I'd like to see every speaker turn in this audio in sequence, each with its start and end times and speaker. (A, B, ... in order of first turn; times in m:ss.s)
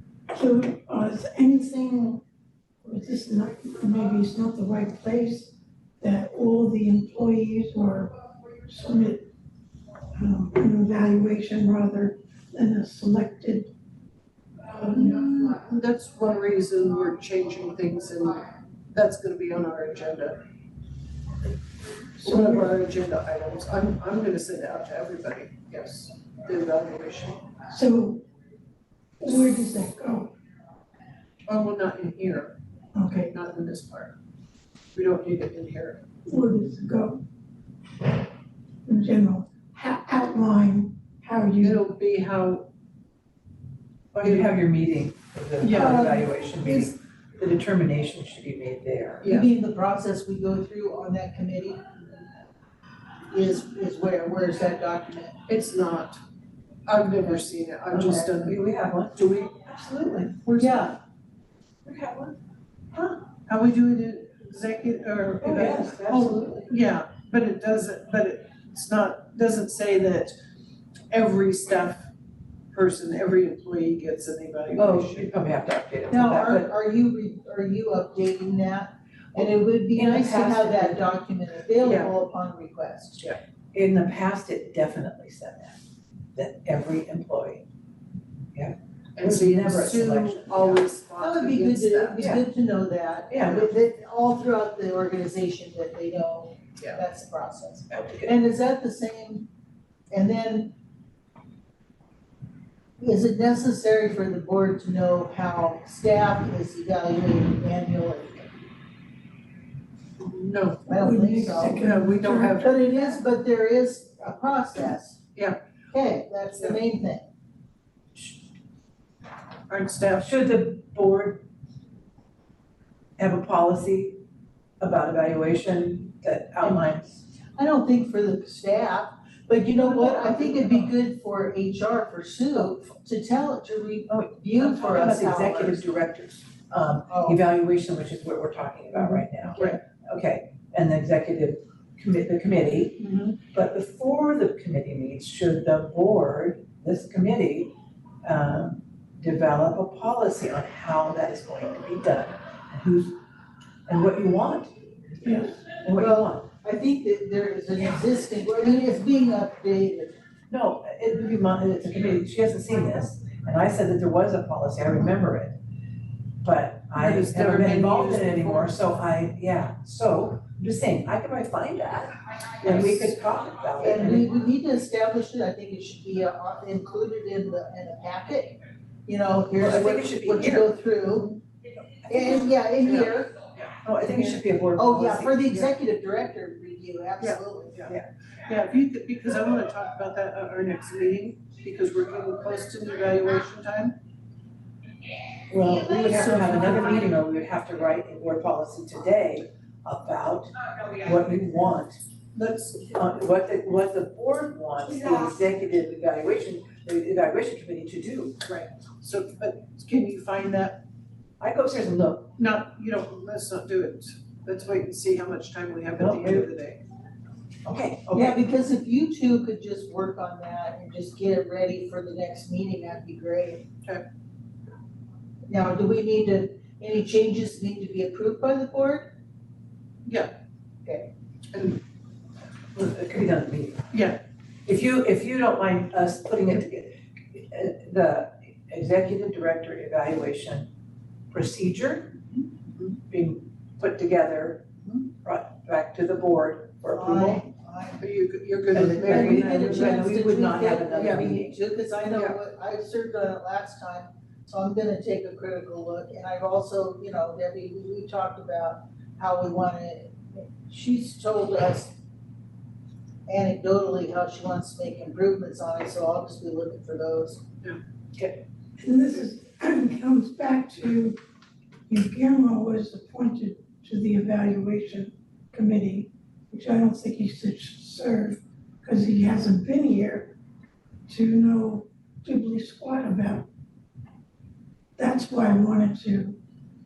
0:00.3-0:02.2 A
0:02.8-0:09.3 A
0:10.1-0:13.7 A
0:14.6-0:15.4 A
0:14.9-0:20.4 B
0:22.2-0:22.8 A
0:22.2-0:27.4 B
0:27.7-0:28.2 A
0:29.2-0:30.3 A
0:31.5-0:32.6 B
0:32.9-0:33.3 A
0:33.3-0:34.1 B
0:34.9-0:36.0 B
0:36.2-0:37.2 A
0:38.8-0:41.8 A
0:41.6-0:42.7 B
0:44.1-0:49.2 C
0:44.2-0:44.5 B
0:45.6-0:46.1 B
0:45.7-0:46.9 D
0:49.2-0:49.5 B
0:49.2-0:51.8 D
0:53.3-0:55.4 D
0:55.5-0:56.2 B
0:56.9-0:58.6 B
0:57.9-1:00.4 C
0:59.1-0:59.5 B
1:00.4-1:00.9 B
1:00.6-1:00.9 D
1:01.8-1:02.3 C
1:02.9-1:03.2 C
1:03.5-1:10.3 B
1:05.4-1:06.7 C
1:11.1-1:12.1 B
1:12.7-1:15.4 B
1:14.8-1:16.7 C
1:16.1-1:23.2 D
1:19.4-1:21.0 C
1:21.8-1:22.1 B
1:23.7-1:25.8 C
1:26.3-1:27.6 C
1:28.5-1:30.9 C
1:29.2-1:32.3 B
1:31.2-1:39.5 D
1:32.2-1:32.5 C
1:33.3-1:33.7 C
1:36.8-1:37.0 B
1:37.9-1:38.3 C
1:40.1-1:40.7 D
1:43.0-1:48.5 D
1:50.2-1:51.0 B
1:50.9-1:51.8 D
1:50.9-1:52.6 A
1:51.8-1:53.2 B
1:52.5-1:55.2 D
1:55.9-1:57.2 D
1:59.7-2:00.4 B
2:00.2-2:01.4 C
2:03.2-2:04.2 C
2:04.8-2:07.2 C
2:07.5-2:15.8 D
2:09.7-2:10.9 B
2:14.1-2:33.2 C
2:17.1-2:17.4 D
2:19.0-2:19.7 D
2:23.1-2:23.4 D
2:33.9-2:34.7 C
2:35.2-2:35.6 A
2:35.4-2:36.5 C
2:35.9-2:40.1 D
2:40.5-2:45.6 C
2:46.4-2:54.3 C
2:47.0-2:48.7 B
2:52.7-2:53.0 B
2:53.8-3:01.4 D
2:59.6-3:00.7 C
3:02.1-3:03.4 D
3:02.8-3:03.2 B
3:03.6-3:05.5 C
3:04.0-3:07.9 D
3:07.2-3:07.9 B
3:08.4-3:14.0 B
3:15.5-3:22.0 C
3:22.3-3:23.0 B
3:22.9-3:28.4 C
3:28.4-3:30.8 B
3:31.4-3:32.3 C
3:32.4-3:36.8 B
3:36.0-3:36.5 C
3:37.6-3:38.4 C
3:38.1-3:43.6 D
3:45.5-3:49.1 D
3:50.0-3:50.3 B
3:51.5-3:51.8 B
3:52.7-3:53.8 C
3:53.9-3:54.2 B
3:54.6-4:00.7 C
4:01.3-4:02.2 C
4:03.1-4:04.6 C
4:05.2-4:07.4 C
4:06.9-4:08.0 D
4:08.0-4:10.0 B
4:08.7-4:11.6 C
4:08.7-4:21.9 D
4:23.3-4:27.4 D
4:28.8-4:31.2 A
4:31.9-4:40.3 A
4:41.1-4:43.5 A
4:45.0-4:46.4 A